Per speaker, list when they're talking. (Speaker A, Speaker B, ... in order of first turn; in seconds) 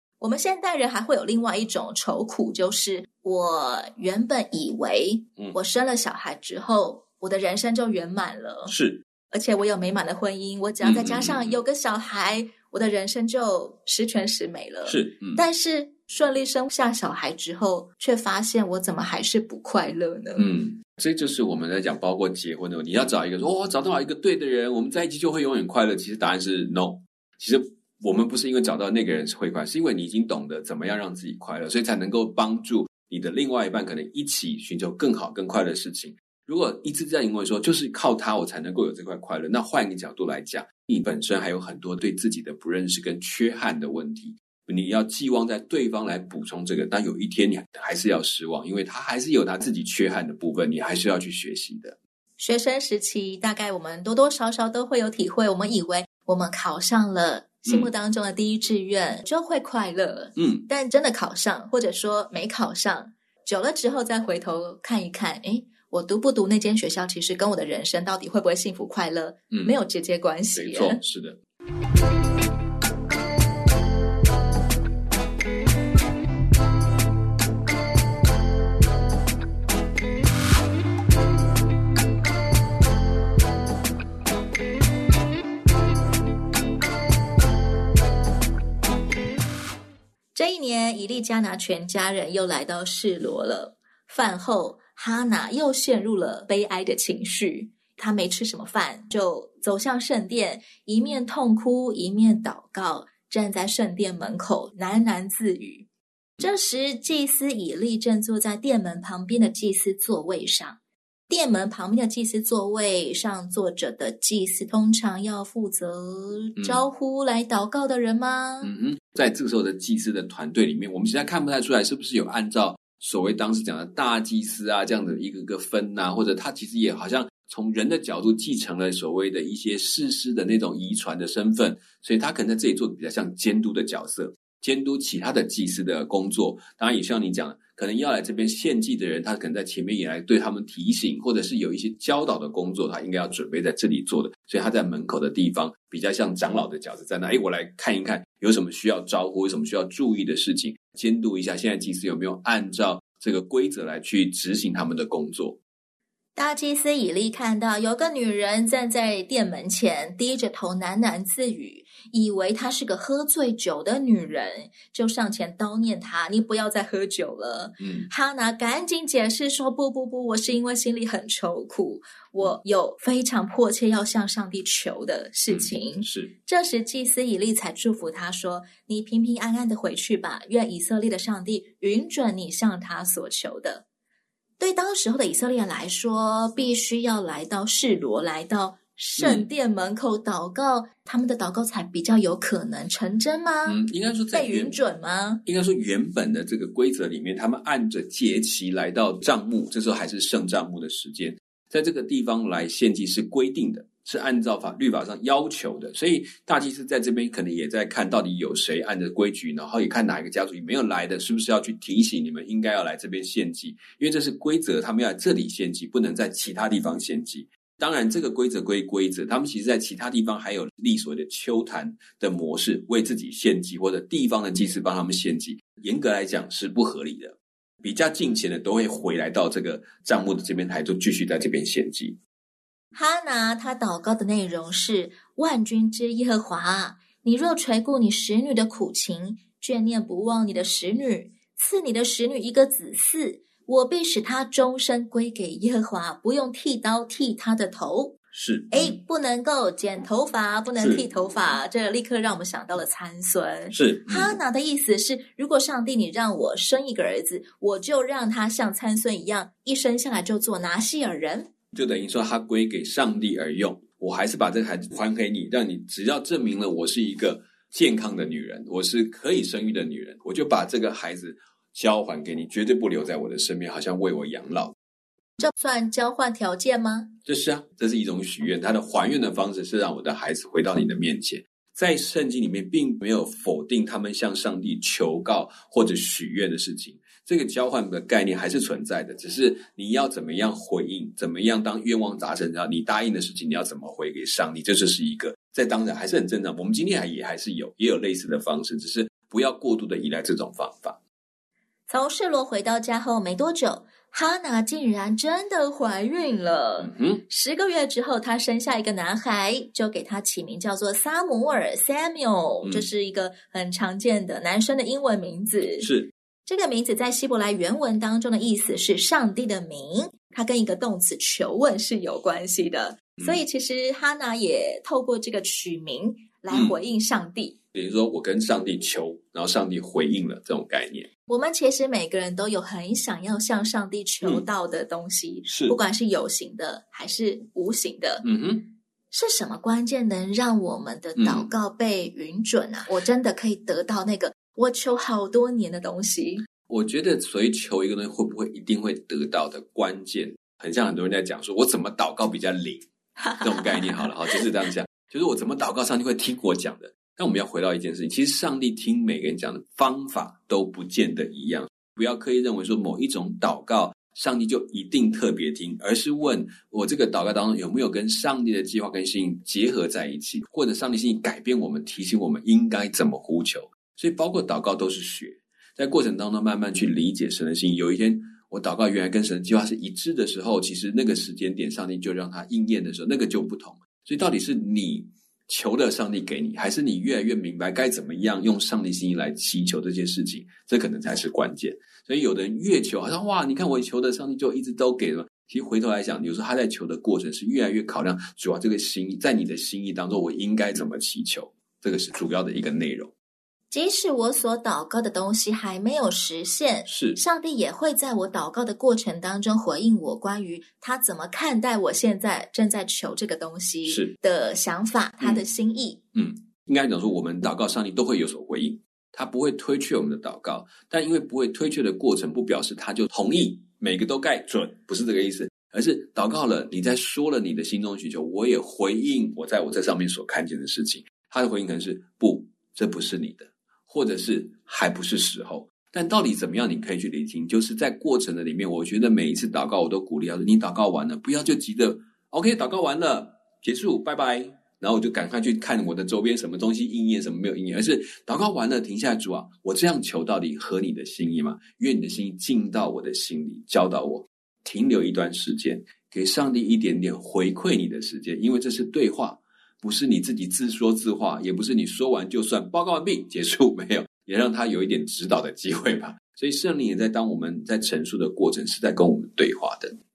Speaker A: 0.2-8.7, 9.3-20.5, 52.4-71.0, 90.3-105.9, 106.4-110.8, 111.3-118.7, 156.4-183.8, 184.6-193.8, 194.3-195.4, 232.9-248.2, 248.7-261.5, 275.4-277.1, 301.9-315.9, 316.5-327.6, 331.3-338.2, 339.1-346.4, 353.2-354.4, 403.7-416.0
Speaker B: 8.7-9.0, 10.8-11.6, 14.8-15.4, 20.4-52.0, 60.4-60.7, 70.5-71.4, 116.6-116.8, 118.6-155.6, 167.8-168.1, 175.5-176.3, 189.2-189.5, 193.7-194.8, 195.4-232.2, 248.3-249.0, 250.8-251.1, 253.7-254.3, 261.7-274.8, 277.3-301.0, 306.8-307.2, 312.6-312.9, 315.8-316.1, 326.5-326.8, 327.7-331.1, 335.5-335.8, 338.2-338.7, 341.2-341.5, 346.7-352.9, 353.4-403.1, 406.9-407.2, 413.9-414.1, 416.1-469.9